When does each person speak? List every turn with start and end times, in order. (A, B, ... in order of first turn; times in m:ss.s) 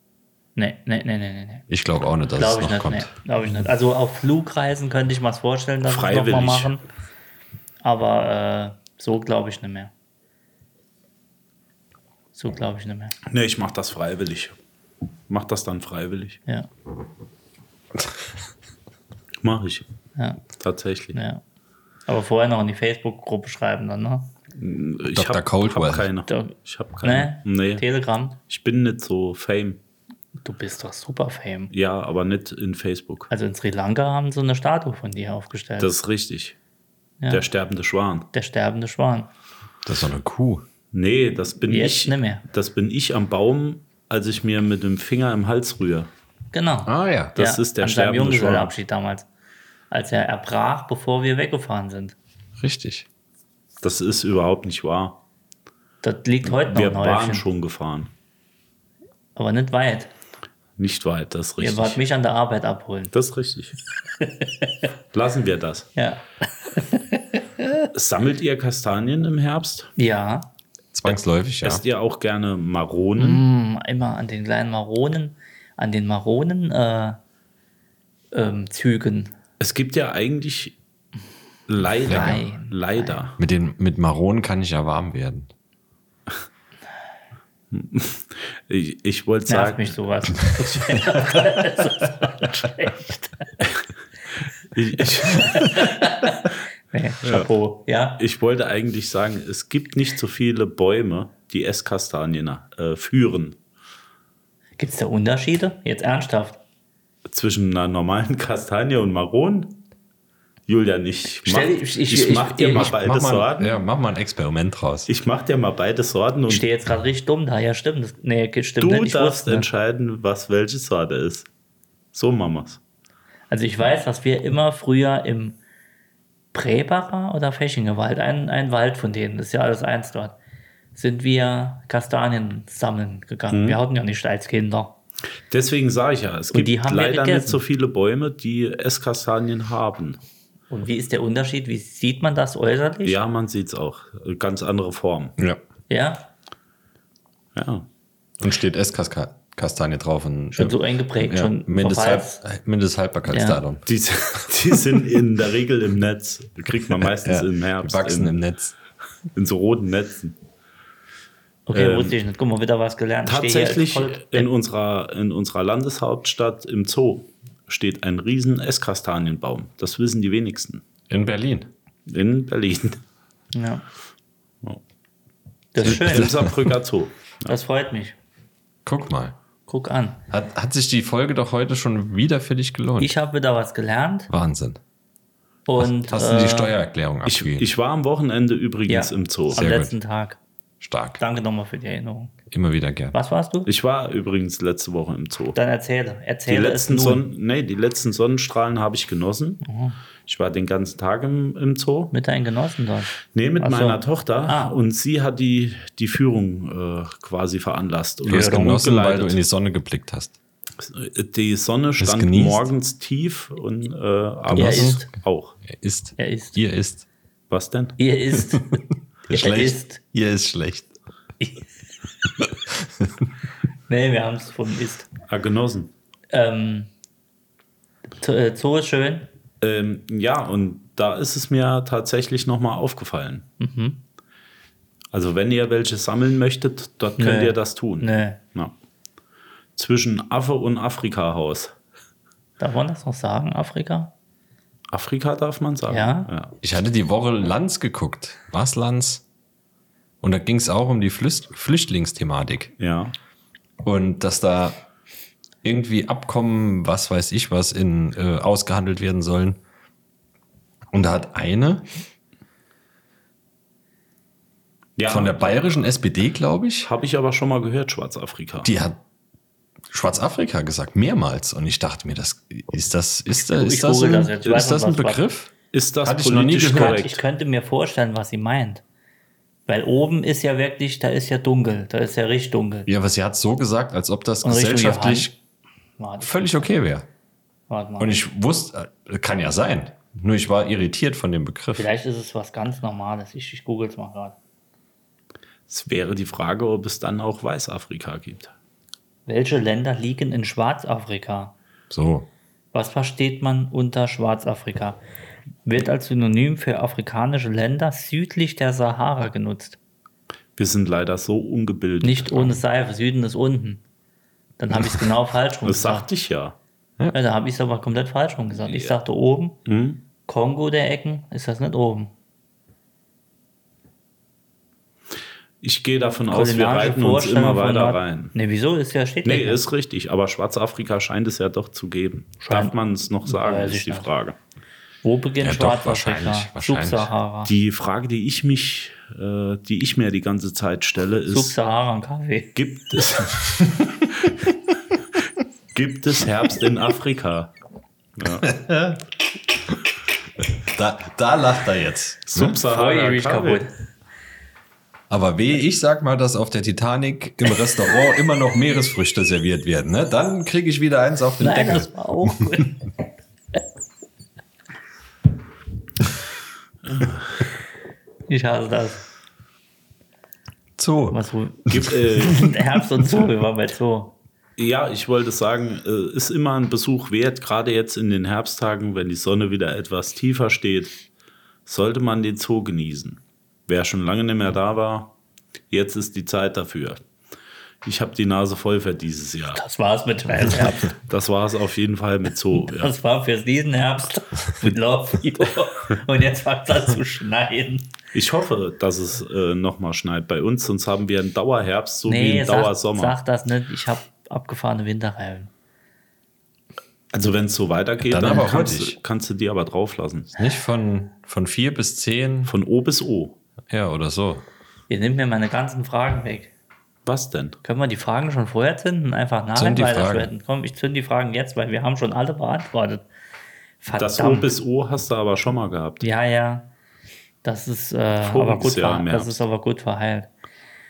0:00.6-0:01.6 A
0:01.7-0:03.1 B
0:02.4-0:06.8 A
0:05.8-0:06.7 C
0:07.8-0:09.9 A
0:12.4-0:13.2 A
0:13.3-0:14.6 C
0:15.3-0:16.4 C
0:19.4-0:19.9 C
0:20.2-0:20.4 A
0:20.6-0:21.2 C
0:21.1-0:21.4 A
0:22.1-0:24.3 A
0:24.6-0:27.8 C
0:25.1-0:26.1 B
0:26.3-0:28.4 A
0:28.5-0:29.8 C
0:30.4-0:31.7 A
0:31.7-0:33.3 C
0:33.3-0:35.9 A
0:35.8-0:36.6 C
0:37.3-0:38.3 C
0:38.3-0:39.3 A
0:39.8-0:40.6 B
0:40.9-0:46.1 C
0:41.7-0:42.4 A
0:46.5-0:49.3 A
0:46.9-0:47.3 B
0:47.4-0:48.7 C
0:49.9-0:52.2 A
0:52.6-0:53.1 B
0:53.8-0:55.2 C
0:56.0-0:57.4 A
0:56.5-0:58.1 C
0:59.4-1:00.1 A
1:00.8-1:02.0 C
1:01.6-1:03.1 A
1:03.1-1:03.8 C
1:04.2-1:04.8 A
1:05.1-1:05.9 C
1:06.0-1:07.9 A
1:07.9-1:09.9 C
1:10.0-1:10.5 A
1:10.9-1:11.8 B
1:11.1-1:13.4 C
1:13.2-1:17.2 A
1:18.3-1:19.3 A
1:19.6-1:20.8 C
1:21.7-1:23.4 C
1:22.0-1:23.2 A
1:22.1-1:22.4 B
1:23.4-1:25.5 B
1:27.7-1:30.0 C
1:29.5-1:33.6 A
1:34.7-1:36.0 C
1:35.2-1:38.2 A
1:37.2-1:37.5 C
1:38.2-1:43.6 C
1:44.8-1:46.6 A
1:47.3-1:49.8 C
1:50.7-1:53.8 C
1:51.5-1:52.9 A
1:52.8-1:55.1 B
1:55.1-1:56.7 C
1:56.5-1:59.7 A
1:58.8-2:01.5 C
2:02.1-2:02.8 C
2:03.5-2:05.6 A
2:06.5-2:10.4 A
2:11.0-2:14.9 A
2:13.5-2:13.8 C
2:15.5-2:20.2 C
2:16.5-2:17.6 A
2:20.7-2:23.2 A
2:23.0-2:25.4 C
2:25.9-2:26.3 A
2:27.6-2:27.9 C
2:28.4-2:33.9 B
2:30.5-2:32.4 A
2:33.3-2:33.6 A
2:33.9-2:38.3 C
2:37.0-2:38.8 B
2:39.4-2:40.4 C
2:41.7-2:44.5 A
2:41.7-2:42.2 C
2:43.3-2:50.8 C
2:51.1-2:51.7 B
2:52.1-2:53.0 C
2:53.5-2:53.8 A
2:55.7-2:56.4 A
2:55.8-2:57.5 C
2:55.9-2:56.6 B
2:57.5-2:58.2 A
2:58.8-2:59.4 B
2:59.7-3:00.2 A
3:00.3-3:03.2 B
3:03.0-3:04.3 A
3:04.3-3:04.8 B
3:05.7-3:06.7 A
3:05.8-3:07.7 B
3:07.3-3:09.6 C
3:08.9-3:10.4 A
3:09.5-3:10.0 B
3:10.8-3:11.2 B
3:11.2-3:12.3 A
3:12.5-3:13.2 B
3:13.1-3:13.7 A
3:13.7-3:15.6 C
3:15.6-3:17.2 A
3:16.5-3:19.6 C
3:19.6-3:20.0 A
3:20.3-3:22.1 C
3:22.1-3:24.7 A
3:23.3-3:29.4 C
3:28.3-3:30.4 B
3:28.4-3:28.7 A
3:30.8-3:35.6 C
3:32.0-3:32.7 B
3:34.5-3:35.0 B
3:34.6-3:35.1 A
3:35.6-3:37.1 B
3:36.2-3:36.6 A
3:37.5-3:38.0 C
3:38.0-3:38.8 A
3:39.3-3:40.9 B
3:39.3-3:40.0 A
3:41.4-3:41.7 A
3:42.8-3:43.1 B
3:43.9-3:45.1 A
3:45.3-3:45.9 C
3:46.3-3:46.9 A
3:48.2-3:49.3 A
3:49.6-3:53.5 C
3:53.6-3:54.0 A
3:55.1-3:58.7 C
3:57.2-3:58.4 A
3:59.8-4:01.8 C
4:02.6-4:04.1 A
4:04.9-4:06.6 C
4:05.9-4:06.3 A
4:06.6-4:09.2 B
4:10.2-4:12.7 B
4:12.8-4:13.1 C
4:13.8-4:14.8 B
4:15.6-4:19.6 B
4:20.9-4:21.9 B
4:25.0-4:25.6 C
4:25.1-4:26.9 B
4:26.8-4:28.7 C
4:28.6-4:29.0 B
4:29.9-4:37.0 B
4:33.4-4:35.2 A
4:35.7-4:37.2 C
4:36.7-4:38.8 A
4:39.7-4:42.9 A
4:42.9-4:45.3 B
4:44.4-4:45.3 A
4:46.0-4:46.7 A
4:46.2-4:47.1 B
4:47.7-4:48.2 A
4:48.0-4:51.9 B
4:51.8-4:54.4 A
4:55.7-4:58.5 C
4:59.3-5:01.5 A
5:01.9-5:02.3 B
5:02.7-5:05.0 A
5:05.6-5:09.8 A
5:10.6-5:12.6 C
5:12.0-5:13.8 A
5:14.6-5:16.1 A
5:15.6-5:16.6 C
5:17.1-5:19.6 A
5:18.7-5:18.9 C
5:19.7-5:20.0 C
5:20.3-5:22.1 A
5:25.6-5:28.3 C
5:26.3-5:29.6 A
5:29.2-5:34.4 C
5:32.4-5:32.7 A
5:33.3-5:34.1 A
5:35.0-5:37.5 A
5:35.4-5:37.1 B
5:37.5-5:41.6 C
5:41.3-5:42.6 A
5:42.6-5:44.3 C
5:45.7-5:47.5 C
5:48.2-5:48.5 C
5:48.4-5:49.0 B
5:50.6-5:52.6 B
5:52.3-5:53.7 C
5:52.6-5:53.7 A
5:55.1-6:01.9 B
6:01.4-6:02.8 A
6:06.9-6:07.2 C
6:08.3-6:09.0 A
6:10.8-6:11.9 B
6:11.1-6:14.1 A
6:11.7-6:12.4 C
6:14.6-6:21.0 C
6:21.7-6:25.1 C
6:25.7-6:27.0 C
6:27.8-6:29.6 C
6:29.6-6:30.9 A
6:30.6-6:32.9 C
6:32.7-6:37.9 A
6:38.1-6:43.2 C
6:42.1-6:45.5 A
6:47.1-6:50.3 C
6:48.0-6:49.0 B
6:50.4-6:52.5 B
6:52.5-6:53.4 C
6:53.7-6:54.4 B
6:54.9-6:56.5 A
6:57.1-6:57.6 C
6:57.6-7:03.1 A
6:59.6-7:00.3 B
7:03.8-7:04.5 A
7:04.0-7:06.1 C
7:06.0-7:06.7 A
7:07.4-7:10.3 A
7:08.2-7:09.4 C